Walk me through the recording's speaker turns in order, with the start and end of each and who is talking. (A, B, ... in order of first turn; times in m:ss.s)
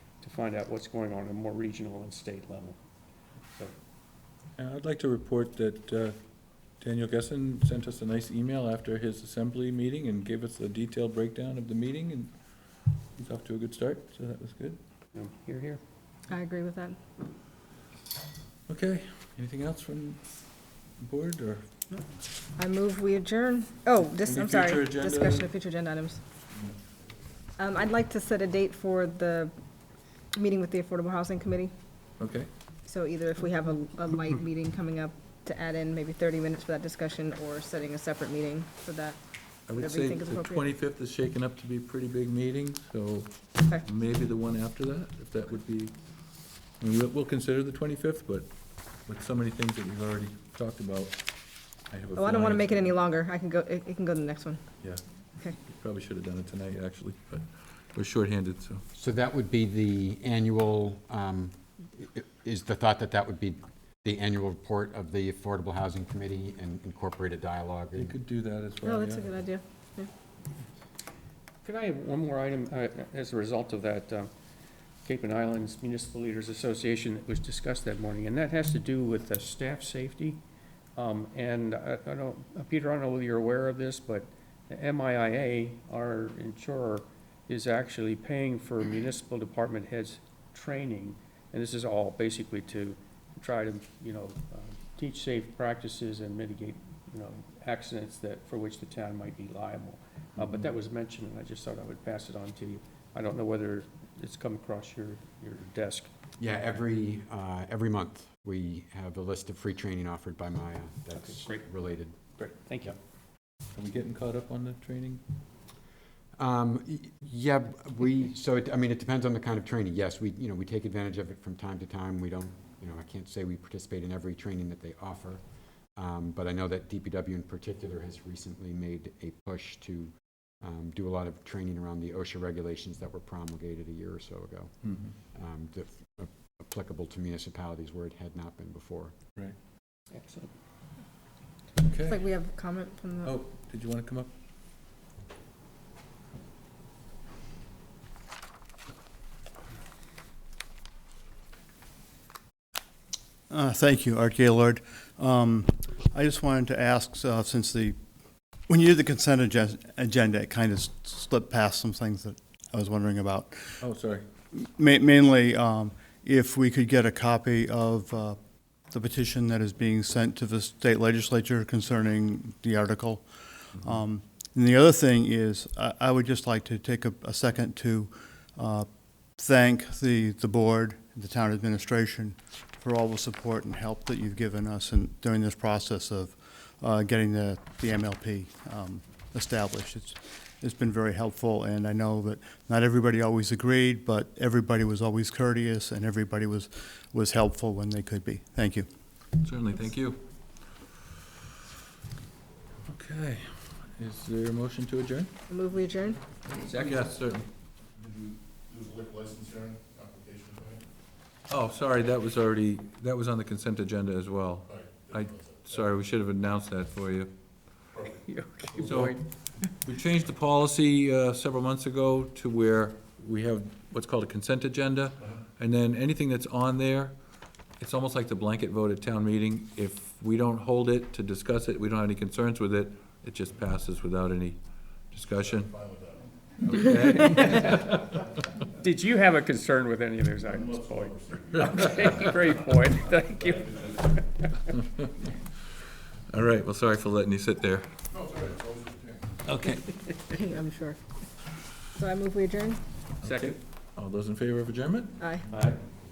0:00.2-0:02.8 A
0:04.6-0:06.2 B
0:06.8-0:12.4 B
0:13.2-0:14.8 B
0:15.1-0:15.8 A
0:16.3-0:17.0 C
0:18.7-0:21.7 B
0:22.6-0:26.2 C
0:24.1-0:25.5 B
0:27.6-0:29.5 C
0:30.3-0:31.7 C
0:32.2-0:32.5 B
0:32.9-0:39.2 C
0:39.7-0:46.0 B
0:39.8-0:40.6 C
0:46.8-0:51.2 B
0:51.8-0:53.0 B
0:52.2-0:54.6 C
0:54.8-0:58.8 B
0:59.0-1:08.1 D
1:07.9-1:09.4 B
1:08.8-1:10.1 C
1:11.6-1:14.3 A
1:15.0-1:20.4 A
1:21.0-1:46.1 A
1:46.4-1:52.2 D
1:51.1-1:51.7 A
1:52.2-1:53.0 A
1:53.7-1:55.2 B
1:56.4-2:19.1 D
2:14.8-2:15.1 B
2:20.1-2:20.5 A
2:21.8-2:22.2 B
2:22.1-2:23.4 C
2:23.2-2:24.3 B
2:33.5-2:38.0 E
2:38.7-2:43.8 E
2:43.8-2:44.2 B
2:44.5-2:48.4 E
2:48.9-3:18.9 E
3:19.4-3:20.2 B
3:22.9-3:25.3 B
3:25.5-3:26.2 C
3:26.4-3:27.5 B
3:28.0-3:30.8 F
3:31.5-3:37.3 B
3:34.7-3:35.7 F
3:38.2-3:39.6 A
3:38.8-3:47.2 B
3:47.8-3:55.8 B
3:55.8-3:56.3 F
3:56.7-3:58.2 B
3:58.7-4:04.5 A
4:00.8-4:01.4 F
4:01.6-4:01.8 B
4:06.3-4:07.9 B
4:08.1-4:09.2 F
4:09.4-4:10.2 B
4:10.3-4:11.0 C
4:12.0-4:12.8 C
4:13.2-4:15.8 B
4:13.2-4:13.6 A
4:15.2-4:15.5 C